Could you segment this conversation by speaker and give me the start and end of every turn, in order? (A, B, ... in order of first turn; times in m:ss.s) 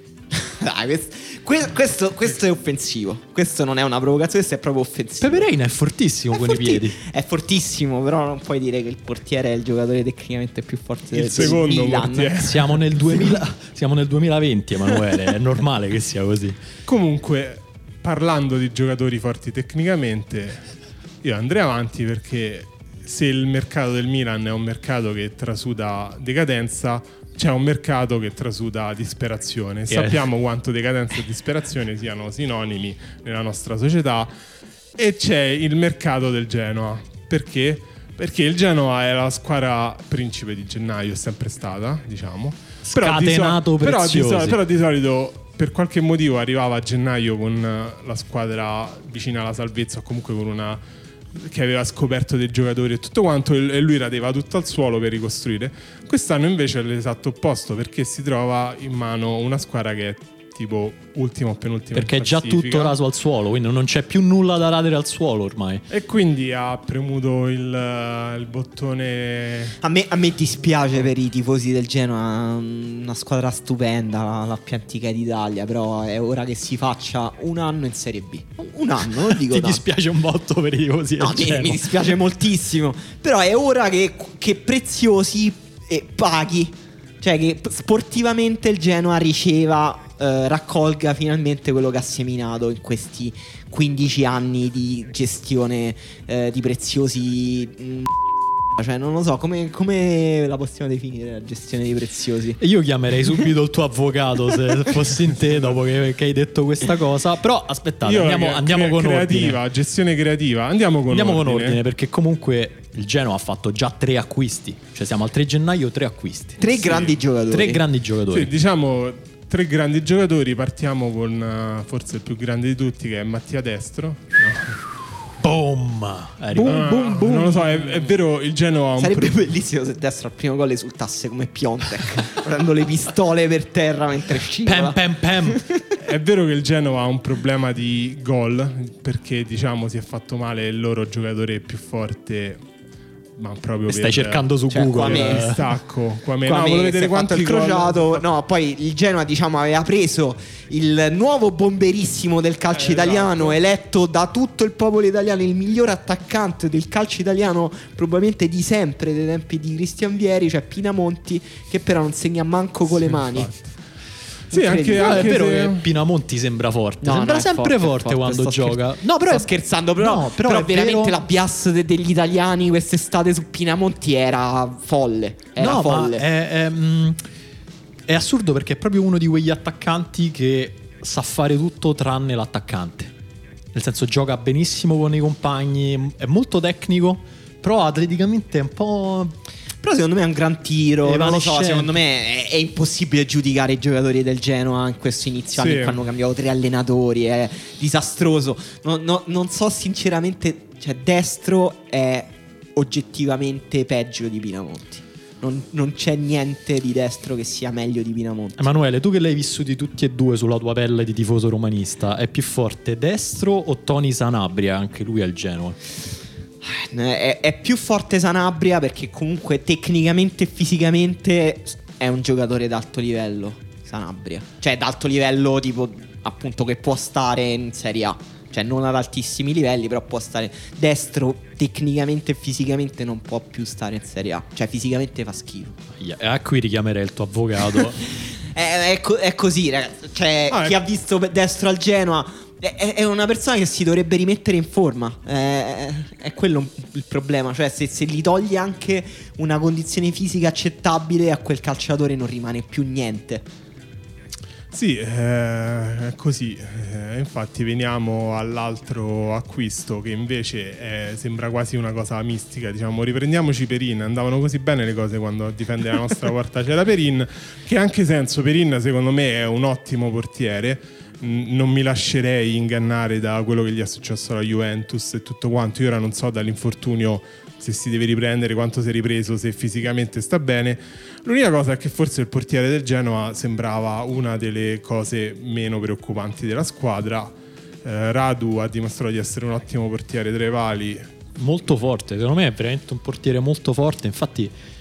0:00.3-0:05.5 A
0:05.2-0:07.0 B
0:06.3-0:12.4 A
0:11.1-0:11.6 B
0:11.3-0:12.8 C
0:12.4-0:16.6 B
0:16.9-0:20.6 C
0:21.2-0:34.3 C
0:29.9-0:30.2 B
0:35.0-0:50.8 C
0:42.9-0:44.6 B
0:51.3-1:03.0 C
1:01.9-1:05.8 B
1:05.9-1:09.8 C
1:09.8-1:19.8 A
1:19.3-1:21.8 B
1:21.2-1:38.1 A
1:38.7-1:42.6 A
1:42.6-1:49.6 B
1:45.4-1:45.7 C
1:48.0-1:51.8 C
1:51.1-1:56.9 B
1:56.6-1:57.8 A
1:56.7-1:57.1 C
1:57.5-1:58.5 B
1:58.3-2:04.8 C
2:05.4-2:07.0 B
2:06.5-2:08.1 A
2:06.6-2:09.5 C
2:09.0-2:15.8 A
2:14.6-2:15.6 B
2:16.0-2:22.6 C
2:23.4-2:28.2 C
2:23.9-2:25.6 B
2:24.7-2:25.6 A
2:26.4-2:43.5 A
2:32.7-2:33.5 C
2:43.2-2:43.7 C
2:44.5-2:45.8 C
2:44.5-2:45.4 A
2:44.9-2:51.1 B
2:47.0-2:56.2 A
2:55.6-2:57.2 B
2:58.1-3:03.1 B
3:03.7-3:09.3 B
3:09.8-3:28.7 A
3:11.0-3:11.9 B
3:15.6-3:16.0 C
3:28.6-3:35.8 B
3:36.6-3:55.8 A
3:56.0-3:58.0 B
3:58.2-4:13.5 A
4:00.5-4:00.8 C
4:14.7-4:47.3 C
4:47.8-4:51.1 C
4:51.4-4:54.5 B